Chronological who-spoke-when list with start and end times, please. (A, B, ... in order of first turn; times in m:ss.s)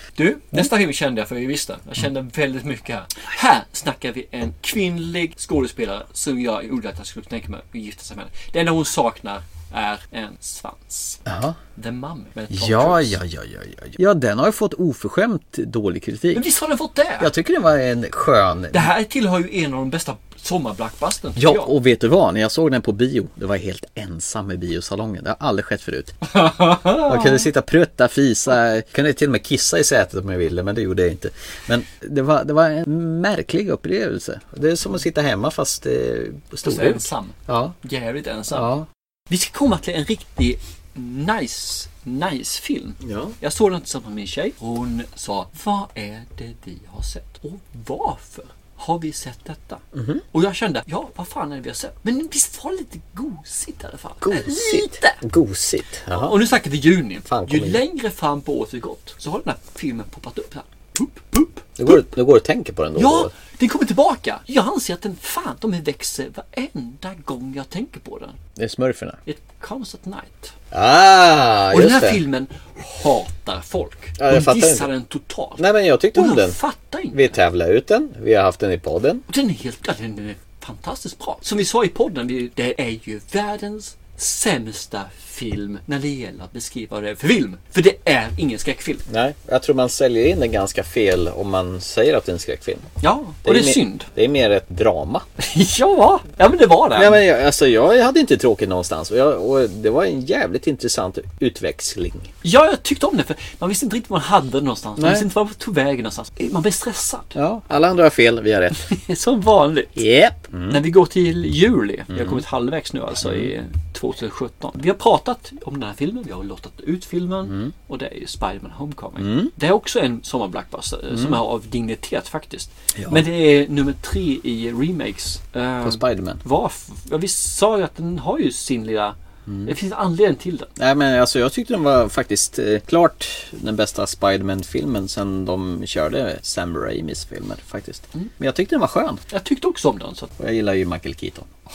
0:00.2-0:11.2 A
0:11.2-0:11.6 B
0:11.8-0:13.2 A
0:12.5-0:16.4 B
0:16.3-0:17.3 A
0:17.2-0:18.9 B
0:18.7-0:21.7 A
0:21.4-0:26.2 B
0:26.4-0:27.4 A
0:27.0-0:37.7 B
0:36.6-0:38.7 A
0:38.5-0:38.8 B
0:39.3-0:55.2 A
0:43.0-0:43.3 B
0:49.9-0:50.2 B
0:54.2-0:56.3 B
0:56.1-1:02.0 A
0:57.2-0:57.8 B
1:01.8-1:03.3 B
1:03.0-1:08.4 A
1:08.6-1:09.2 B
1:09.2-1:10.5 A
1:10.7-1:12.2 B
1:11.7-1:17.3 A
1:14.2-1:14.9 B
1:15.6-1:16.6 B
1:17.1-1:19.2 B
1:19.3-1:29.0 A
1:29.1-1:32.9 B
1:33.0-1:34.1 A
1:33.4-1:35.2 B
1:35.4-1:37.2 A
1:36.9-1:42.3 B
1:42.4-1:47.3 A
1:45.0-1:45.2 B
1:47.3-1:48.9 B
1:48.8-1:50.0 A
1:50.0-1:50.8 B
1:50.7-2:10.7 A
1:52.1-1:52.4 B
1:53.2-1:53.5 B
1:57.5-1:57.7 B
1:59.2-1:59.5 B
2:01.1-2:01.4 B
2:02.9-2:03.2 B
2:05.8-2:06.4 B
2:09.5-2:09.7 B
2:10.8-2:19.2 B
2:19.3-2:20.3 A
2:20.4-2:21.5 B